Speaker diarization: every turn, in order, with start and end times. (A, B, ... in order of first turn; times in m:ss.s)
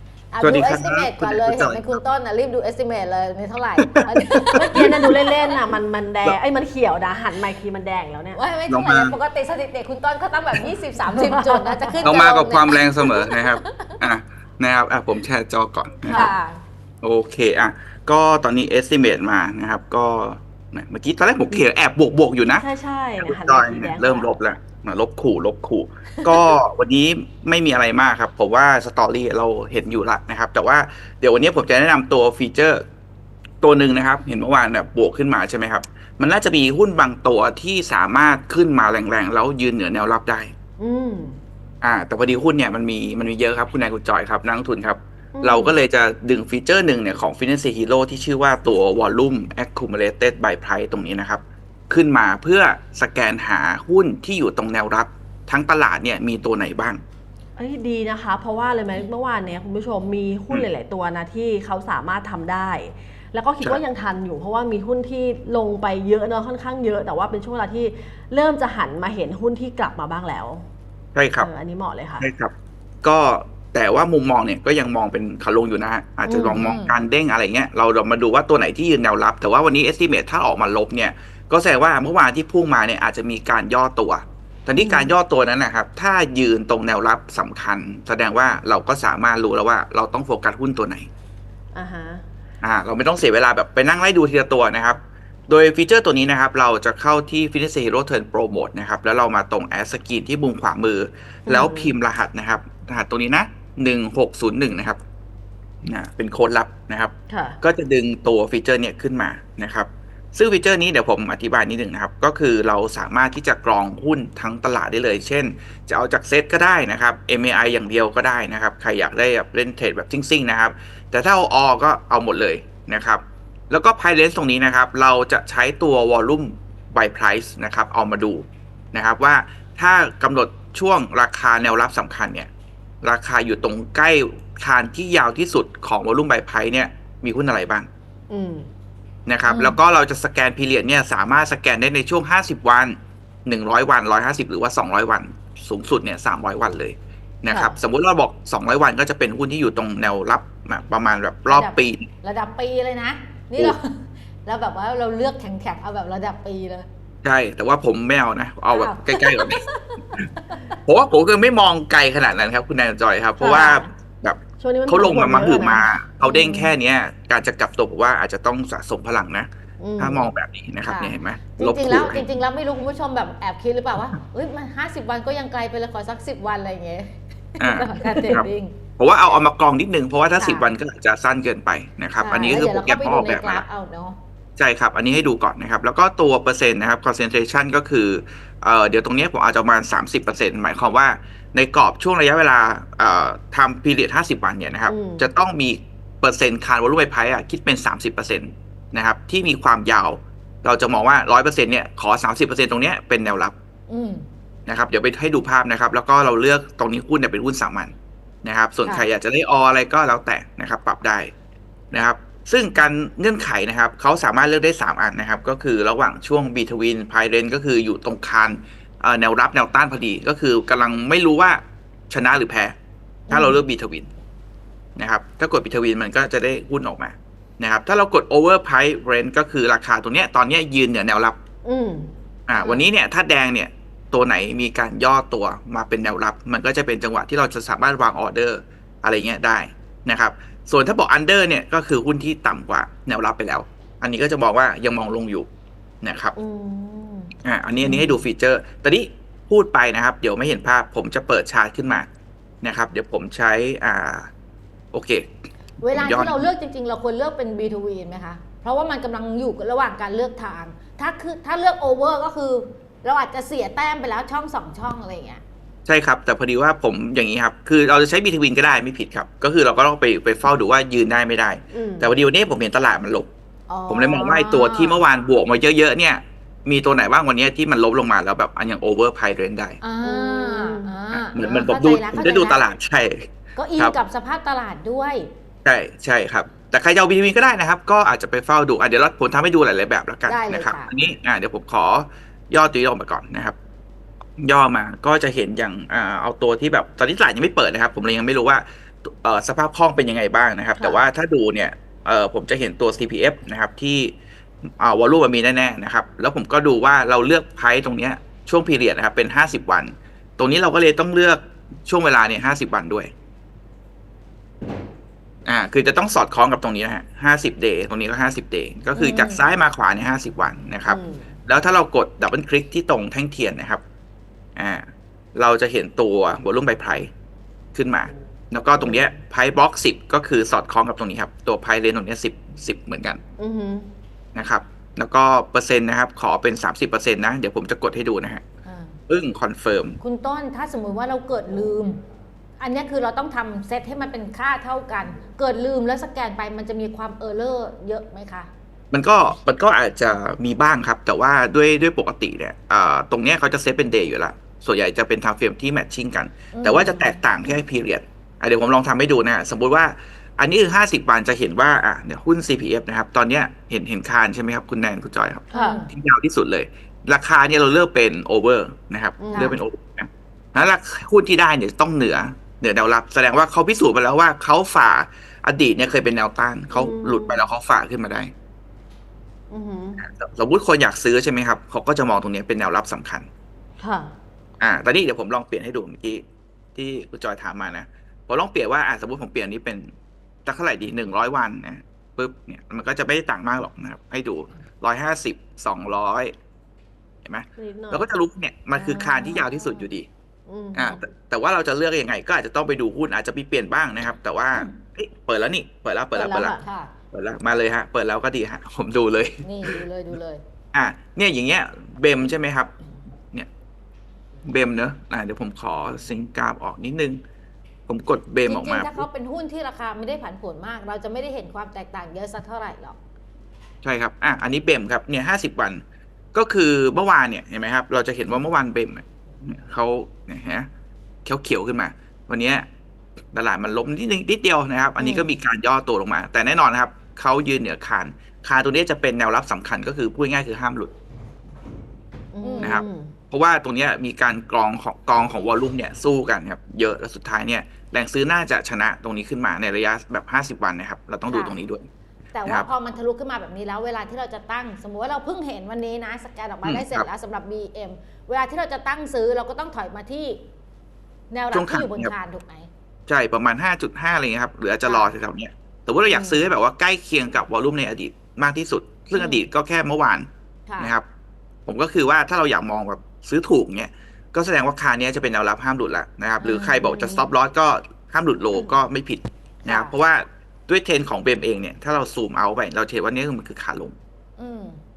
0:00.3-0:05.4 A
0:00.4-0:01.8 B
0:03.8-0:04.8 B
0:04.5-0:08.4 C
0:08.4-0:14.0 A
0:08.7-0:09.2 B
0:11.0-0:12.1 C
0:12.0-0:16.3 B
0:16.0-0:16.3 C
0:16.1-0:16.6 A
0:17.0-0:22.7 B
0:22.5-0:24.3 C
0:23.2-0:32.8 B
0:33.6-0:40.5 B
0:40.8-0:41.4 C
0:41.8-0:57.0 B
0:45.4-0:45.8 C
0:57.6-1:10.7 C
1:11.2-1:11.5 B
1:11.4-1:12.3 C
1:12.2-1:31.1 B
1:16.3-1:16.6 C
1:16.5-1:17.0 A
1:24.8-1:25.1 C
1:31.7-1:32.3 C
1:32.6-1:45.0 B
1:41.5-1:42.0 C
1:45.8-2:12.5 B
1:47.3-1:47.6 C
2:13.0-2:17.9 B
2:18.3-2:18.7 C
2:19.3-2:32.1 B
2:19.5-2:19.8 A
2:27.5-2:27.8 C
2:31.5-2:36.9 A
2:37.2-2:39.6 B
2:38.7-2:40.8 A
2:40.9-2:52.2 B
2:43.4-2:43.9 C
2:44.6-2:46.0 C
2:46.2-2:46.8 A
2:49.8-2:50.3 C
2:50.8-2:58.8 A
2:57.6-3:03.6 B
2:58.1-2:58.4 C
3:00.4-3:00.7 A
3:02.2-3:04.2 A
3:04.6-3:23.5 B
3:14.8-3:15.3 C
3:23.9-3:24.3 A
3:24.7-3:31.3 B
3:31.9-3:42.8 B
3:43.3-3:43.6 A
3:43.3-3:44.1 B
3:45.0-3:51.4 B
3:51.6-3:52.1 C
3:52.5-4:05.5 B
3:52.6-3:52.9 A
4:06.0-4:06.4 B
4:06.4-4:08.2 C
4:07.4-4:12.1 B
4:12.6-4:14.3 B
4:14.9-4:15.3 B
4:15.8-4:25.4 A
4:15.9-4:16.5 B
4:25.9-4:33.3 B
4:31.7-4:32.2 C
4:33.7-4:35.0 A
4:33.9-4:39.8 B
4:39.8-4:42.6 A
4:40.0-4:41.0 C
4:41.1-4:44.0 B
4:43.6-4:45.3 A
4:45.6-4:53.6 B
4:50.3-4:51.0 A
4:54.4-5:04.2 B
5:00.8-5:01.0 C
5:04.8-5:13.1 B
5:15.5-5:23.8 B
5:18.9-5:19.4 A
5:20.9-5:21.3 C
5:24.6-5:27.1 B
5:27.7-5:33.2 B
5:28.8-5:29.0 C
5:33.4-5:33.9 C
5:34.4-5:38.4 B
5:38.6-5:39.0 A
5:39.1-5:40.0 B
5:40.0-5:42.0 A
5:42.6-5:48.5 A
5:48.9-6:18.3 B
5:56.5-5:57.2 A
6:05.5-6:05.8 C
6:05.5-6:05.9 A
6:09.2-6:09.6 C
6:09.3-6:09.6 A
6:16.7-6:17.4 C
6:19.5-6:20.0 C
6:20.0-6:23.3 B
6:23.8-6:24.2 C
6:24.6-6:26.2 B
6:26.8-6:29.9 B
6:30.4-6:36.3 B
6:37.2-6:40.1 B
6:37.6-6:38.1 C
6:38.7-6:39.9 A
6:40.5-6:41.0 C
6:40.7-6:46.6 B
6:46.1-6:46.6 C
6:46.6-6:46.9 A
6:47.1-6:49.8 B
6:49.4-6:50.4 A
6:50.7-6:52.7 B
6:54.4-6:57.2 B
6:57.9-6:59.0 B
6:58.5-7:03.0 A
7:03.8-7:05.8 B
7:06.3-7:10.7 B
7:11.2-7:12.7 B
7:13.3-7:20.9 B
7:15.0-7:15.3 C
7:22.3-7:23.1 C
7:22.4-7:22.8 A
7:22.6-7:31.9 B
7:31.3-7:31.6 A
7:32.3-7:40.4 A
7:36.6-7:37.1 B
7:41.3-7:42.7 A
7:41.5-7:42.1 B
7:43.1-7:50.3 B
7:44.8-7:45.1 A
7:46.1-7:46.4 A
7:49.2-7:49.4 A
7:50.7-7:51.0 A
7:50.8-7:51.1 B
7:51.7-8:04.0 B
7:56.4-7:57.3 A
7:59.6-8:00.0 A
8:04.4-8:04.8 A